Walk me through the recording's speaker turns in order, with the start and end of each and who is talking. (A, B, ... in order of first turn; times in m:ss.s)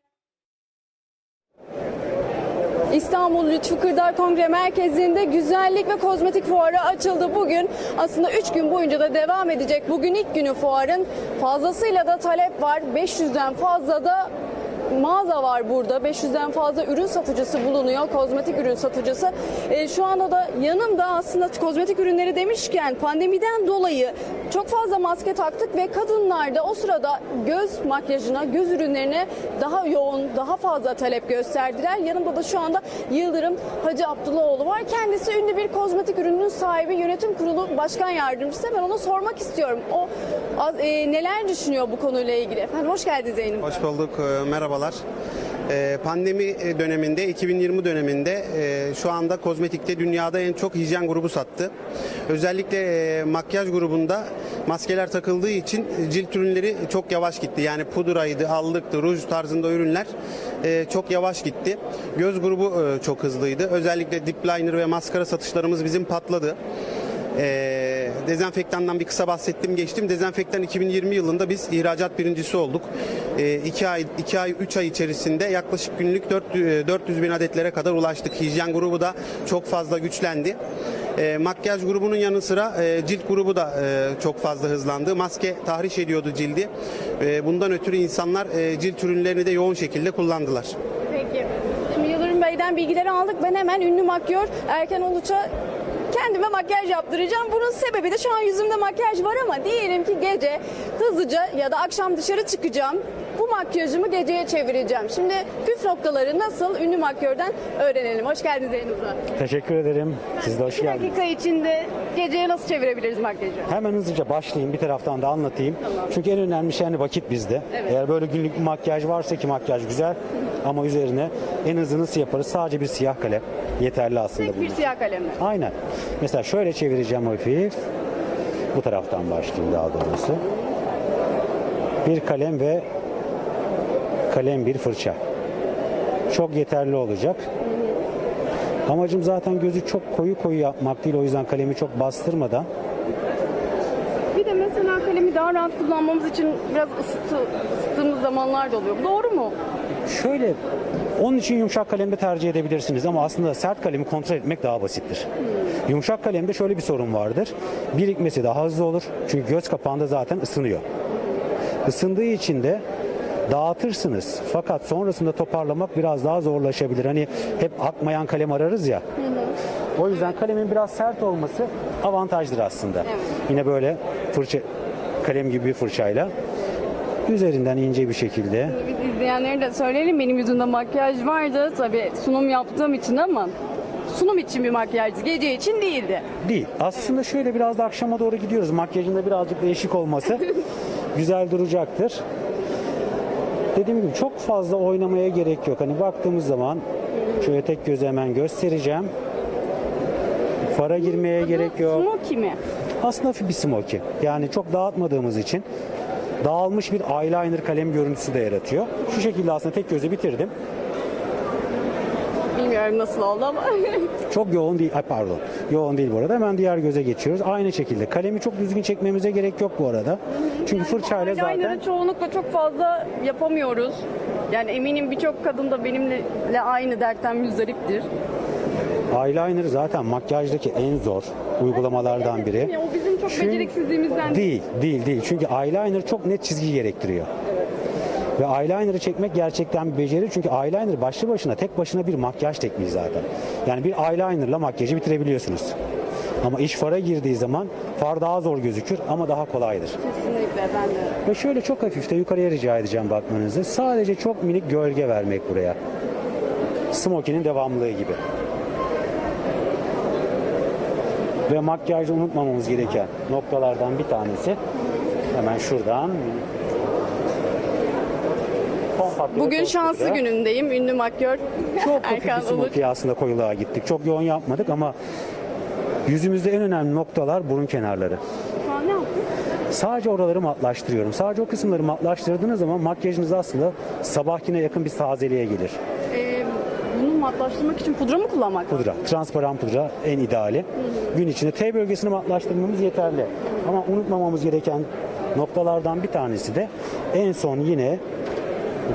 0:02.9-0:14.3 A
0:14.9-0:43.7 A
0:43.6-0:45.0 B
0:45.7-0:51.7 B
0:52.3-1:00.1 B
1:00.6-1:06.6 B
1:07.3-1:20.6 B
1:21.2-1:30.8 B
1:31.1-1:35.5 A
1:36.1-1:49.2 A
1:49.3-1:51.2 C
1:50.4-1:53.7 A
1:53.7-2:04.8 C
2:04.4-2:05.4 A
2:05.4-2:07.8 C
2:08.7-2:10.4 C
2:12.0-2:12.8 C
2:14.3-2:15.2 C
2:16.3-2:17.4 C
2:18.9-2:22.7 C
2:24.3-2:29.5 A
2:30.1-2:30.6 C
2:31.2-2:35.3 C
2:35.9-2:40.8 C
2:41.8-2:42.8 C
2:43.5-2:49.0 C
2:49.2-2:49.5 A
2:50.0-2:54.6 C
2:53.0-2:53.3 A
2:55.2-2:56.3 C
2:57.2-2:58.8 C
2:58.6-3:03.5 A
3:04.1-3:06.2 A
3:06.4-3:10.5 C
3:11.1-3:12.2 C
3:13.7-3:16.8 C
3:17.4-3:19.1 C
3:20.7-3:22.1 C
3:21.3-3:22.6 A
3:23.0-3:25.6 C
3:26.4-3:30.5 C
3:32.5-3:34.1 A
3:34.3-3:41.8 C
3:40.4-3:48.1 A
3:49.1-3:52.7 C
3:51.8-3:54.5 A
3:53.2-3:57.3 C
3:58.4-4:05.7 C
4:06.4-4:10.0 C
4:10.0-4:11.2 A
4:11.2-4:15.8 C
4:16.9-4:18.2 C
4:21.5-4:24.6 C
4:25.3-4:26.4 C
4:29.0-4:30.2 C
4:29.3-4:32.8 A
4:31.8-4:35.0 C
4:36.1-4:38.2 C
4:38.6-4:39.2 A
4:39.7-4:45.8 C
4:46.1-4:48.8 A
4:48.7-4:58.0 C